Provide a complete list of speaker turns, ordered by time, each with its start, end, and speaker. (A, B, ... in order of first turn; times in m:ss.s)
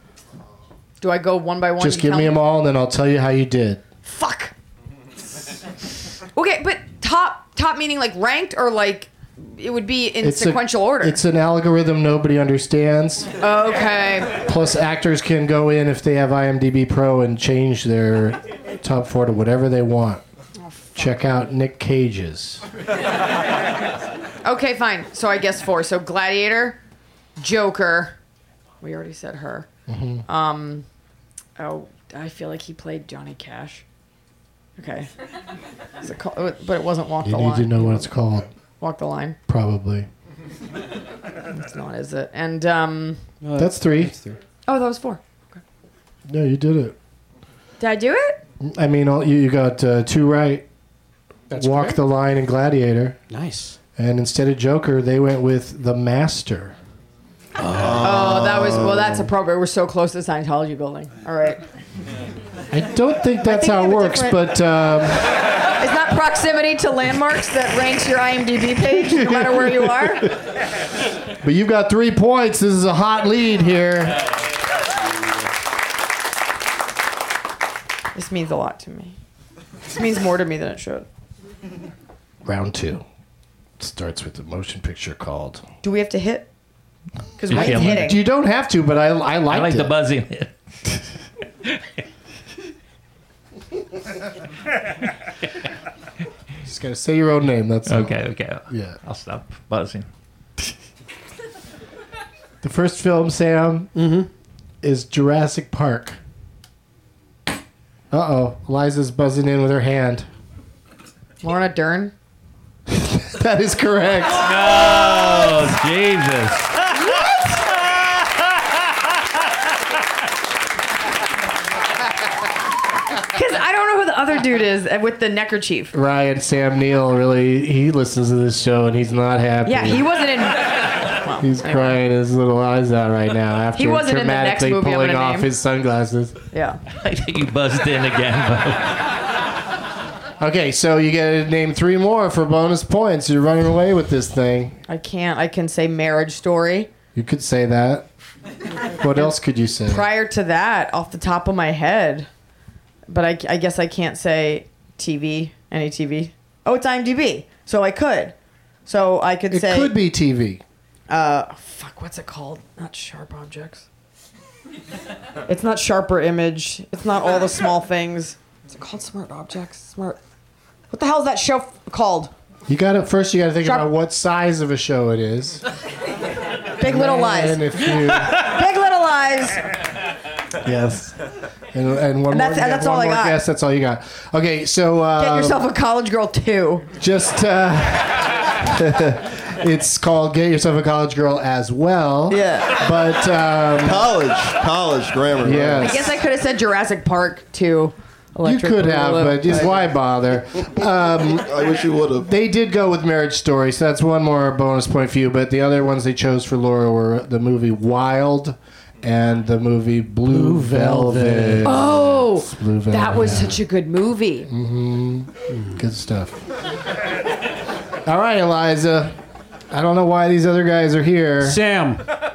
0:01.0-0:02.3 A
0:01.8-0:03.8 B
0:04.0-0:04.5 A
0:06.3-0:11.2 A
0:10.2-0:13.3 B
0:13.4-0:14.3 A
0:14.4-0:20.2 B
0:20.6-0:21.1 A
0:20.9-0:22.6 B
0:24.4-0:26.8 A
0:27.4-0:28.2 A
0:28.8-0:29.7 A
0:29.9-0:30.2 B
0:30.2-0:30.8 A
0:31.6-0:33.8 A
0:34.8-0:35.1 A
0:36.0-0:38.1 A
0:37.2-0:38.5 B
0:38.8-0:39.4 A
0:39.5-0:40.1 B
0:41.5-0:43.2 A
0:43.4-0:44.4 C
0:43.6-0:44.2 B
0:44.7-0:45.6 A
0:46.3-0:47.0 B
0:47.8-0:48.4 A
0:48.6-0:50.6 B
0:51.5-0:52.0 C
0:51.5-0:53.2 B
0:53.3-0:53.8 C
0:54.0-0:56.7 B
0:57.6-0:58.3 C
0:57.7-0:59.3 D
0:58.0-1:01.6 A
1:02.7-1:05.2 B
1:03.4-1:04.4 A
1:05.8-1:10.3 A
1:09.0-1:10.1 B
1:11.4-1:14.2 B
1:18.1-1:19.2 A
1:19.8-1:21.0 A
1:22.4-1:23.0 B
1:23.8-1:25.6 B
1:25.8-1:26.5 A
1:27.4-1:28.2 A
1:27.5-1:28.1 E
1:27.5-1:29.9 B
1:29.5-1:31.0 E
1:36.6-1:39.0 B
1:37.8-1:40.0 E
1:42.6-1:43.9 B
1:44.0-1:44.3 C
1:44.8-1:46.2 B
1:48.1-1:50.3 B
1:51.4-1:52.1 A
1:52.9-1:54.5 B
1:54.4-1:56.7 E
2:03.3-2:05.9 A
2:05.9-2:10.0 B
2:09.6-2:12.0 A
2:11.4-2:16.4 B
2:13.8-2:15.5 A
2:16.5-2:16.8 A
2:17.0-2:19.0 E
2:20.4-2:24.8 B
2:24.9-2:26.9 A
2:27.1-2:28.1 B
2:29.0-2:30.1 B
2:29.8-2:32.3 A
2:33.1-2:38.3 A
2:38.8-2:39.9 A
2:39.5-2:40.6 B
2:41.1-2:43.8 A
2:45.5-2:50.2 A
2:50.9-2:52.3 A
2:52.7-2:55.6 B
2:53.6-2:53.9 A
2:56.8-2:57.6 A
2:56.8-2:58.4 B
2:58.2-2:59.6 A
3:00.6-3:01.2 B
3:01.7-3:05.6 B
3:02.3-3:03.4 A
3:05.2-3:06.9 A
3:07.0-3:14.1 B
3:12.3-3:12.7 A
3:13.8-3:16.0 D
3:15.4-3:16.1 B
3:15.8-3:19.8 A
3:18.4-3:21.5 B
3:21.3-3:22.3 D
3:22.2-3:33.6 B
3:30.3-3:31.7 C
3:31.6-3:34.5 A
3:34.5-3:36.4 B
3:38.0-3:39.2 B
3:39.7-3:41.6 B
3:41.4-3:42.0 C